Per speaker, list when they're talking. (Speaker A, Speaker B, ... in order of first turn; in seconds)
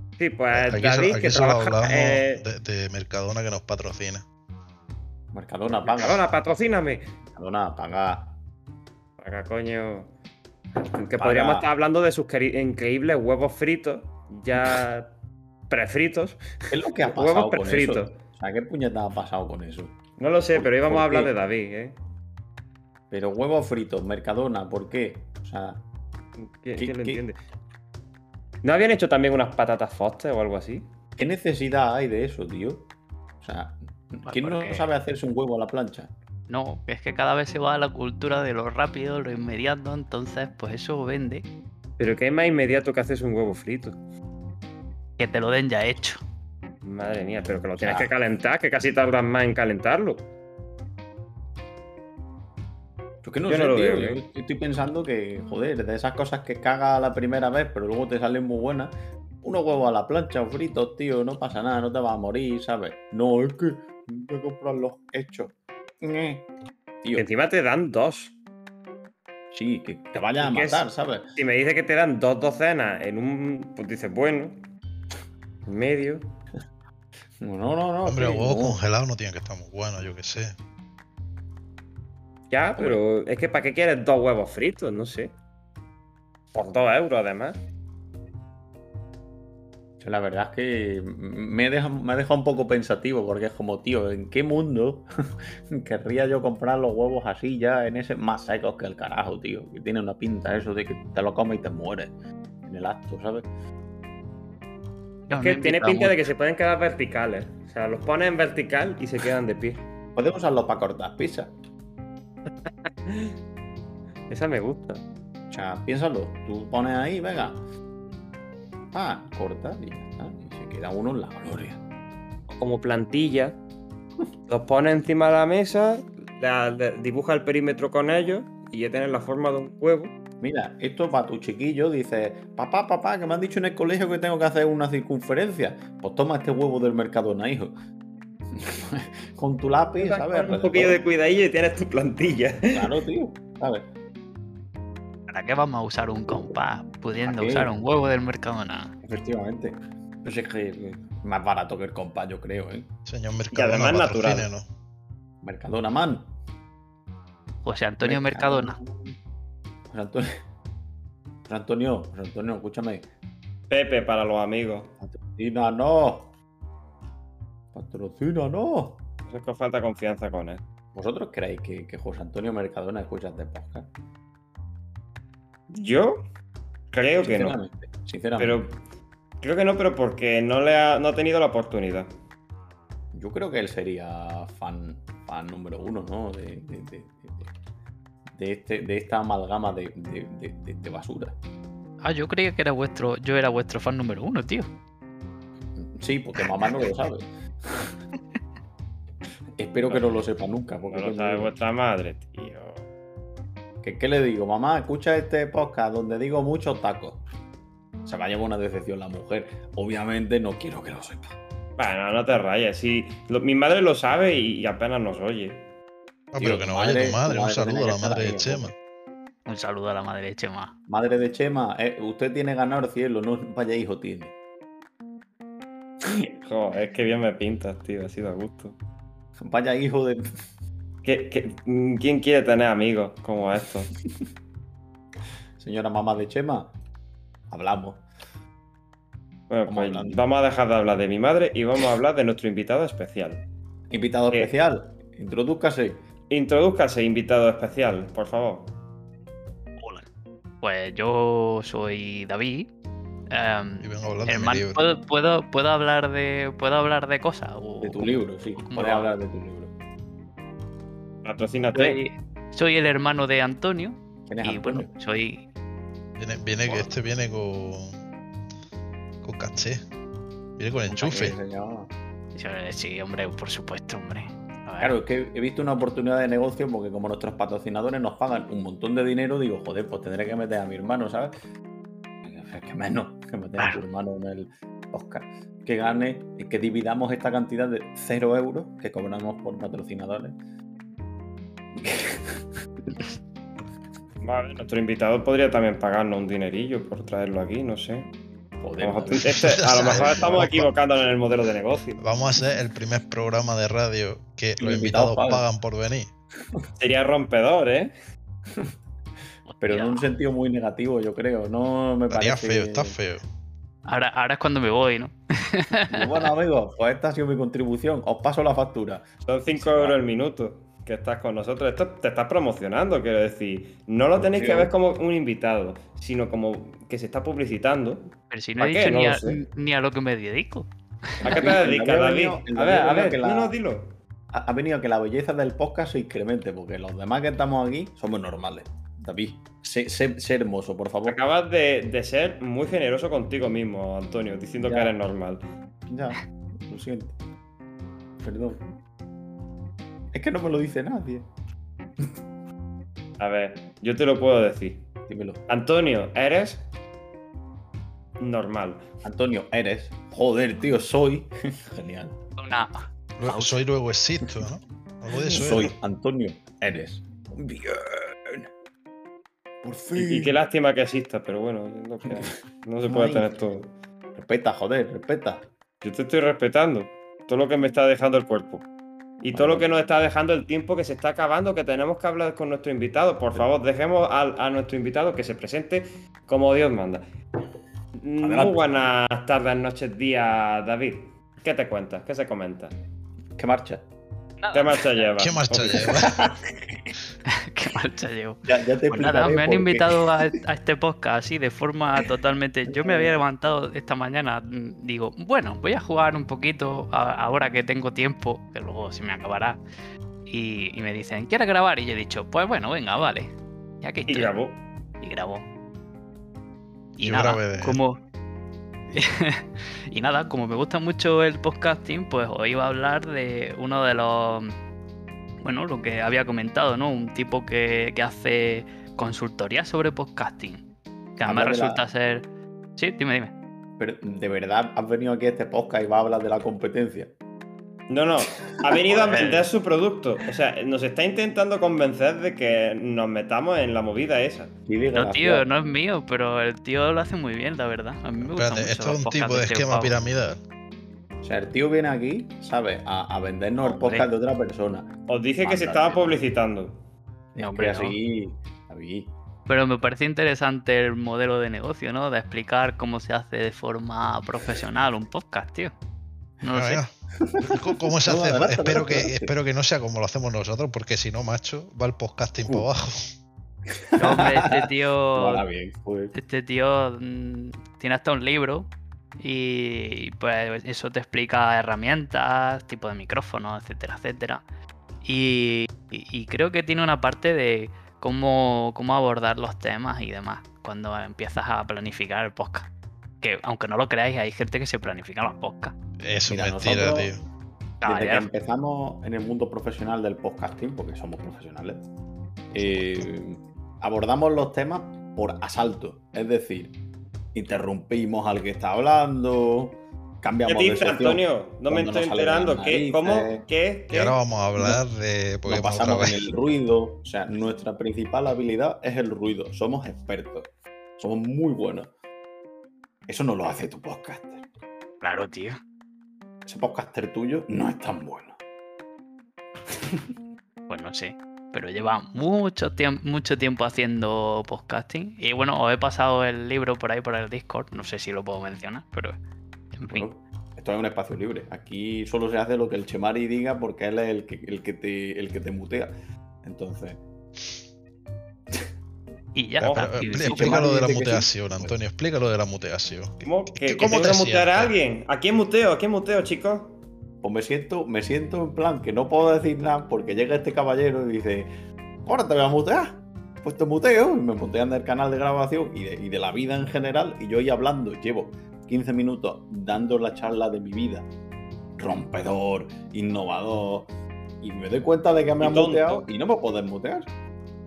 Speaker A: 0.2-2.4, 5.8-7.0, 9.2-10.1, 10.9-15.1, 15.7-18.1, 20.2-22.0, 26.4-27.4, 28.6-30.9, 42.0-44.0, 46.8-50.3, 53.5-54.2, 67.2-68.3, 70.4-74.6, 75.7-76.2, 82.5-85.3, 86.5-87.6, 105.3-109.8, 112.5-113.3, 114.3-115.0, 122.5-123.6, 124.5-130.1, 140.0-142.9, 153.5-154.5, 163.7-164.9, 169.3-170.6, 175.7-176.2, 176.9-177.6, 178.4-178.8, 179.4-182.1, 200.9-202.9, 211.8-215.7, 226.4-228.8, 231.0-233.9, 239.5-243.4, 246.3-248.7, 261.2-262.0, 294.2-298.1, 298.8-302.0, 306.8-307.9, 319.3-329.4, 331.2-333.9, 341.1-345.4, 353.2-354.8, 355.5-356.6, 358.2-358.8, 369.9-373.7, 375.8-378.6, 379.2-387.0, 388.0-392.8, 394.5-396.0, 414.1-414.6, 437.9-444.6, 455.1-456.8, 510.5-514.2, 549.6-550.0, 553.2-556.8, 575.4-576.1
Speaker B: 0.5-4.2, 78.0-80.5, 153.1-154.7, 216.3-218.7, 253.8-254.8, 266.2-268.0, 269.2-269.8, 270.6-271.4, 299.2-300.7, 302.0-306.1, 312.1-313.2, 363.2-365.8, 395.2-396.2, 417.0-417.8, 448.2-450.4, 466.5-466.9, 467.4-473.1, 496.0-497.2, 513.9-516.3, 549.6-554.7
Speaker C: 5.3-6.3, 7.3-8.3, 11.1-11.7, 16.7-19.9, 20.5-21.3, 23.1-25.8, 26.8-27.2, 31.2-32.9, 33.4-36.1, 47.8-48.1, 53.2-66.5, 69.5-71.3, 77.4-78.8, 82.8-83.0, 90.0-95.1, 95.7-102.1, 102.6-103.5, 110.2-111.5, 115.5-117.6, 118.9-121.8, 130.4-137.8, 138.5-141.0, 142.7-143.9, 147.2-147.7, 149.0-152.9, 155.4-156.3, 158.0-159.2, 159.9-160.3, 161.5-163.1, 165.0-166.3, 167.7-169.0, 170.9-173.9, 177.2-178.7, 183.1-187.5, 188.3-191.3, 195.8-197.3, 199.6-201.5, 203.8-207.2, 208.1-211.4, 216.4-218.7, 220.9-224.3, 229.4-230.3, 235.6-236.7, 237.5-238.1, 239.7-240.3, 243.9-246.0, 257.8-259.7, 264.3-264.9, 266.6-266.9, 270.9-271.9, 274.8-281.3, 282.2-290.4, 291.8-292.4, 298.6-300.5, 304.6-305.5, 309.6-313.0, 315.9-320.0, 324.1-324.7, 331.2-333.6, 334.3-341.2, 344.6-344.9, 345.9-347.2, 348.2-348.6, 350.1-351.3, 355.1-355.4, 359.0-362.2, 365.3-368.5, 369.6-370.4, 372.9-373.4, 374.1-375.4, 379.3-379.7, 388.2-388.6, 393.4-393.8, 395.8-396.9, 398.4-400.1, 402.7-403.1, 431.2-431.8, 433.8-437.1, 438.7-439.2, 444.7-445.5, 451.2-456.2, 457.4-459.1, 467.2-469.3, 473.9-476.1, 496.3-497.1, 497.8-501.9, 502.5-506.8, 507.4-513.5, 514.6-514.8, 515.5-521.9, 523.1-524.5, 526.5-528.4, 539.9-545.9, 546.4-547.0, 550.2-551.8, 557.2-561.5, 562.1-571.1, 571.8-573.9, 574.4-577.1
Speaker D: 34.3-34.9, 36.5-41.5, 45.2-46.2, 105.3-106.3, 145.3-148.9, 157.6-158.8, 192.0-194.7, 219.5-220.7, 249.8-250.1, 250.6-252.7, 253.3-259.1, 261.7-265.4, 272.3-274.9, 309.5-310.1, 313.9-316.2, 328.3-331.5, 362.4-363.6, 394.4-395.0, 397.3-409.6, 410.3-413.3, 413.8-414.4, 415.0-415.5, 417.0-418.0, 418.9-424.6, 425.4-430.6, 431.2-432.3, 432.8-433.3, 439.2-439.5, 444.9-450.0, 453.6-454.1, 457.4-458.0, 459.5-465.7, 466.4-466.8, 474.0-475.5, 476.1-484.4, 485.0-492.7, 493.2-495.8, 497.8-498.3, 525.0-525.6, 530.7-539.2, 539.7-540.1, 549.4-550.7